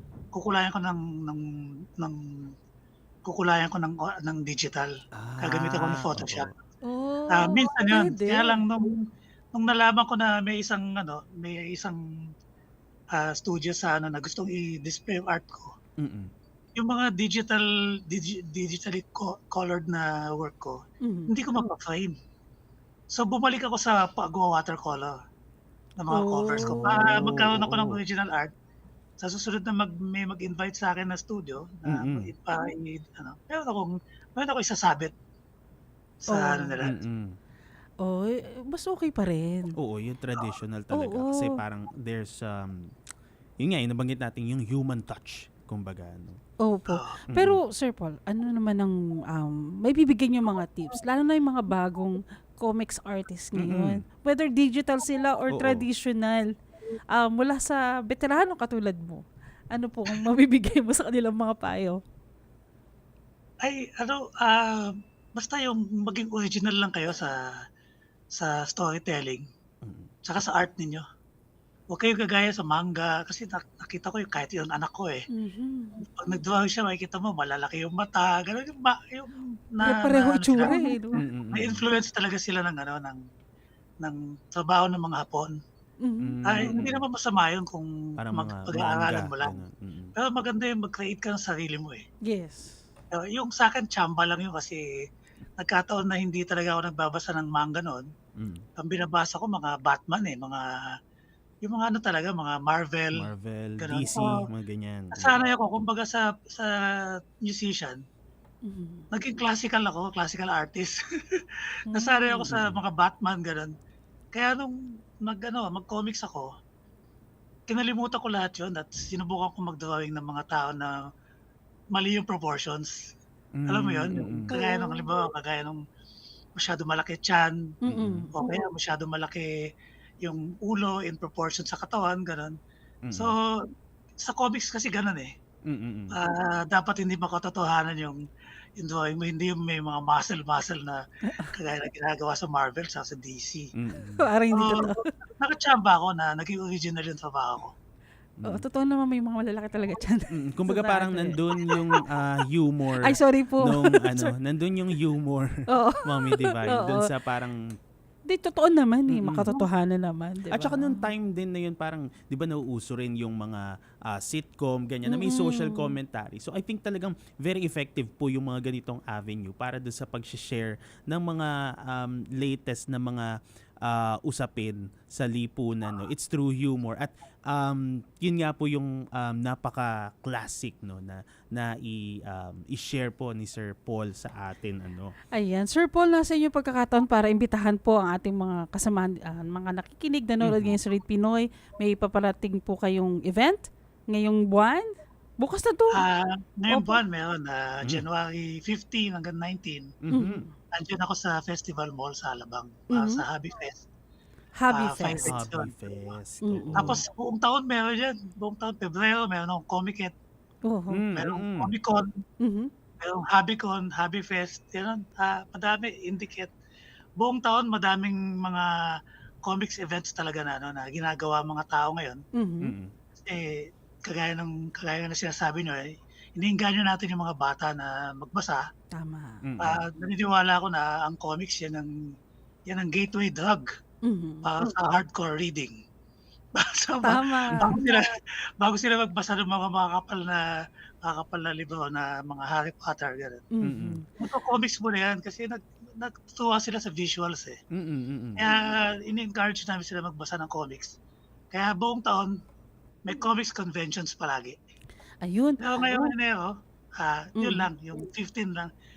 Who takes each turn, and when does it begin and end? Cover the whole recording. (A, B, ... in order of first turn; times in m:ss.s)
0:00.3-0:01.4 A
0:02.0-0:02.5 A
0:03.2-0:04.9 A
0:05.2-0:06.5 B
0:05.4-0:06.5 A
0:06.8-0:08.6 C
0:07.3-0:09.0 A
0:09.5-0:12.0 A
0:13.2-0:15.7 A
0:16.0-0:16.3 B
0:16.8-0:20.8 A
0:21.0-0:21.3 C
0:21.3-0:22.1 A
0:23.1-0:25.1 A
0:26.0-0:28.5 A
0:26.1-0:27.2 C
0:26.6-0:28.0 B
0:29.2-0:35.1 A
0:31.9-0:32.3 B
0:36.2-0:37.0 A
0:36.3-0:36.8 C
0:36.8-0:37.4 B
0:38.0-0:39.7 C
0:39.8-0:42.9 B
0:40.9-0:41.6 C
0:43.6-0:46.4 B
0:46.6-0:56.5 C
0:46.9-0:47.2 A
0:47.3-0:47.6 B
0:53.6-0:54.0 B
0:55.5-0:55.9 B
0:57.2-1:02.0 C
1:03.6-1:07.3 A
1:08.4-1:09.4 A
1:09.8-1:10.1 B
1:10.3-1:11.0 A
1:11.9-1:15.2 A
1:15.3-1:16.0 C
1:16.0-1:20.9 A
1:19.8-1:21.2 C
1:21.2-1:21.8 B
1:21.5-1:23.2 A
1:24.0-1:25.5 A
1:26.0-1:26.8 C
1:26.2-1:27.0 B
1:26.4-1:29.6 A
1:28.2-1:30.1 B
1:30.2-1:32.0 A
1:32.3-1:32.8 C
1:33.2-1:34.8 A
1:35.6-1:38.0 A
1:38.4-1:38.6 B
1:38.8-1:40.6 A
1:41.6-1:44.3 A
1:43.2-1:45.4 B
1:45.1-1:46.7 A
1:47.5-1:48.0 A
1:48.6-1:49.0 C
1:49.1-1:51.0 A
1:51.9-1:53.7 A
1:51.9-1:52.5 C
1:52.5-1:52.8 B
1:54.3-1:56.5 A
1:57.7-2:00.9 A
2:02.0-2:02.9 A
2:03.6-2:04.5 B
2:03.7-2:05.8 A
2:04.5-2:05.1 C
2:06.6-2:07.6 A
2:07.9-2:08.5 C
2:07.9-2:08.3 B
2:08.3-2:09.5 A
2:10.2-2:12.6 A
2:13.1-2:13.3 B
2:13.1-2:13.4 A
2:14.2-2:15.3 A
2:15.7-2:16.2 B
2:16.1-2:18.2 A
2:18.8-2:21.0 A
2:21.5-2:23.7 A
2:23.8-2:24.2 B
2:24.2-2:25.1 C
2:24.5-2:27.7 A
2:28.4-2:31.8 C
2:30.3-2:35.5 B
2:33.0-2:34.3 C
2:35.7-2:37.1 C
2:36.0-2:37.6 B
2:38.3-2:41.1 C
2:39.1-2:39.6 B
2:40.5-2:53.3 B
2:45.1-2:46.0 C
2:53.8-3:05.1 B
3:05.3-3:16.1 C
3:10.4-3:10.8 B
3:15.9-3:19.9 A
3:16.7-3:17.0 C
3:20.0-3:20.4 B
3:20.1-3:20.5 C
3:20.8-3:23.9 A
3:22.9-3:23.2 C
3:24.6-3:25.4 C
3:24.7-3:25.9 A
3:25.2-3:27.0 B
3:26.4-3:27.0 C
3:26.8-3:30.1 A
3:30.7-3:31.0 C
3:30.9-3:31.7 B
3:31.1-3:32.1 A
3:32.4-3:32.7 C
3:33.0-3:36.5 A
3:37.2-3:38.7 A
3:39.5-3:42.2 A
3:42.4-3:42.7 C
3:42.6-3:42.9 B
3:44.1-3:48.6 A
3:49.0-3:49.4 C
3:49.4-3:49.8 B
3:49.6-3:51.9 A
3:52.7-3:53.7 A
3:54.1-3:54.7 C
3:54.4-3:55.7 A
3:56.6-4:00.4 A
3:57.0-3:58.0 C
4:01.0-4:03.4 A
4:03.5-4:04.0 C
4:03.6-4:04.0 B
4:04.2-4:07.6 A
4:07.8-4:08.5 B
4:08.4-4:10.9 A
4:11.5-4:12.3 A
4:13.1-4:14.6 A
4:15.2-4:16.1 C
4:15.6-4:18.7 A
4:17.4-4:18.0 C